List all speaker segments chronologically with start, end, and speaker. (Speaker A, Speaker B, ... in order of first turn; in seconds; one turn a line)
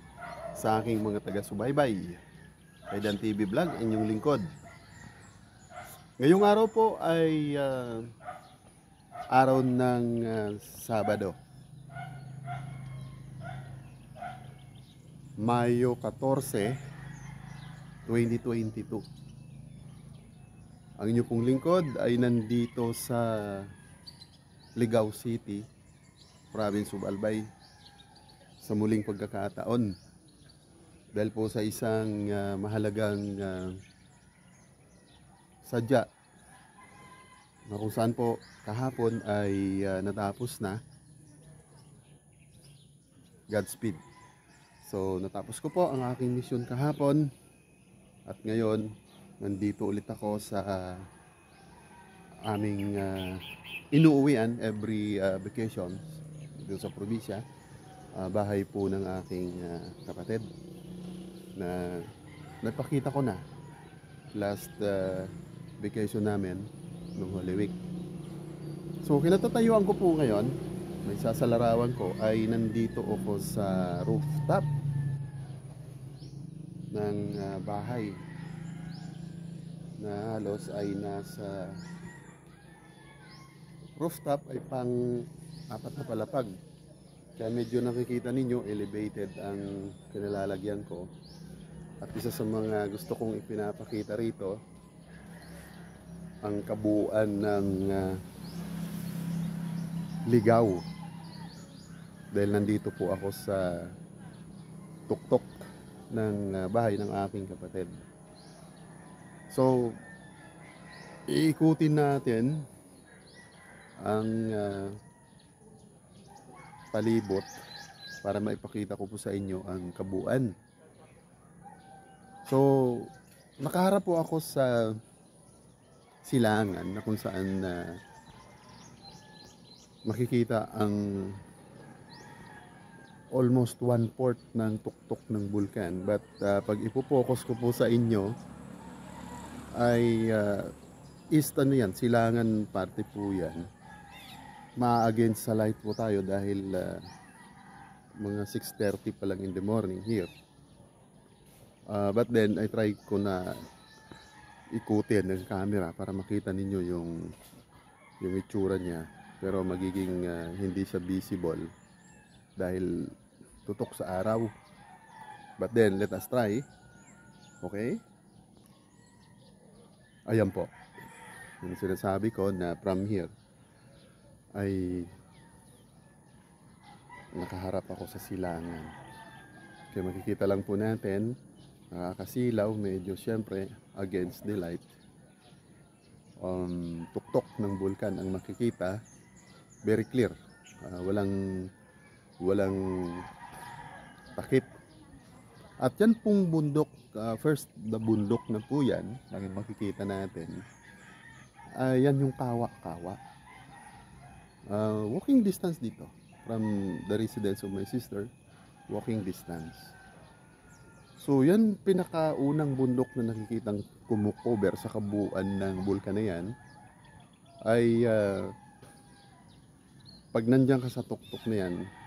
Speaker A: 0.6-2.2
Speaker A: 2.9-4.5
Speaker A: 6.2-8.1
Speaker A: 9.3-11.4
Speaker A: 15.4-16.8
Speaker A: 18.1-19.0
Speaker A: 21.0-23.7
Speaker A: 24.8-25.6
Speaker A: 26.5-27.5
Speaker A: 28.6-29.9
Speaker A: 31.1-33.8
Speaker A: 35.6-36.1
Speaker A: 37.7-40.8
Speaker A: 43.5-44.0
Speaker A: 44.8-47.3
Speaker A: 48.2-51.1
Speaker A: 52.4-57.4
Speaker A: 58.1-60.5
Speaker A: 61.5-62.1
Speaker A: 62.6-63.4
Speaker A: 64.3-67.8
Speaker A: 69.0-74.7
Speaker A: 76.9-78.2
Speaker A: 80.0-81.8
Speaker A: 84.0-86.5
Speaker A: 87.4-91.1
Speaker A: 92.0-94.6
Speaker A: 96.4-98.2
Speaker A: 100.3-100.8
Speaker A: 102.3-103.9
Speaker A: 105.1-105.5
Speaker A: 106.1-108.0
Speaker A: 109.5-110.0
Speaker A: 111.3-112.7
Speaker A: 114.0-115.0
Speaker A: 116.9-117.5
Speaker A: 118.2-120.5
Speaker A: 122.4-125.0
Speaker A: 126.2-128.0
Speaker A: 130.0-131.4
Speaker A: 133.3-138.3
Speaker A: 139.7-140.7
Speaker A: 141.3-143.7
Speaker A: 144.8-147.1
Speaker A: 148.2-150.3
Speaker A: 151.9-153.6
Speaker A: 154.7-157.2
Speaker A: 158.2-161.7
Speaker A: 162.6-164.5
Speaker A: 165.6-166.6
Speaker A: 167.6-168.0
Speaker A: 170.3-170.7
Speaker A: 171.6-173.3
Speaker A: 174.5-175.1
Speaker A: 177.3-178.9
Speaker A: 179.9-181.3
Speaker A: 181.9-184.9
Speaker A: 186.4-189.0
Speaker A: 189.8-191.7
Speaker A: 192.4-193.2
Speaker A: 194.3-194.7
Speaker A: 195.8-200.6
Speaker A: 201.8-203.2
Speaker A: 204.7-208.3
Speaker A: 208.9-209.9
Speaker A: 211.2-216.5
Speaker A: 217.6-218.5
Speaker A: 220.3-221.8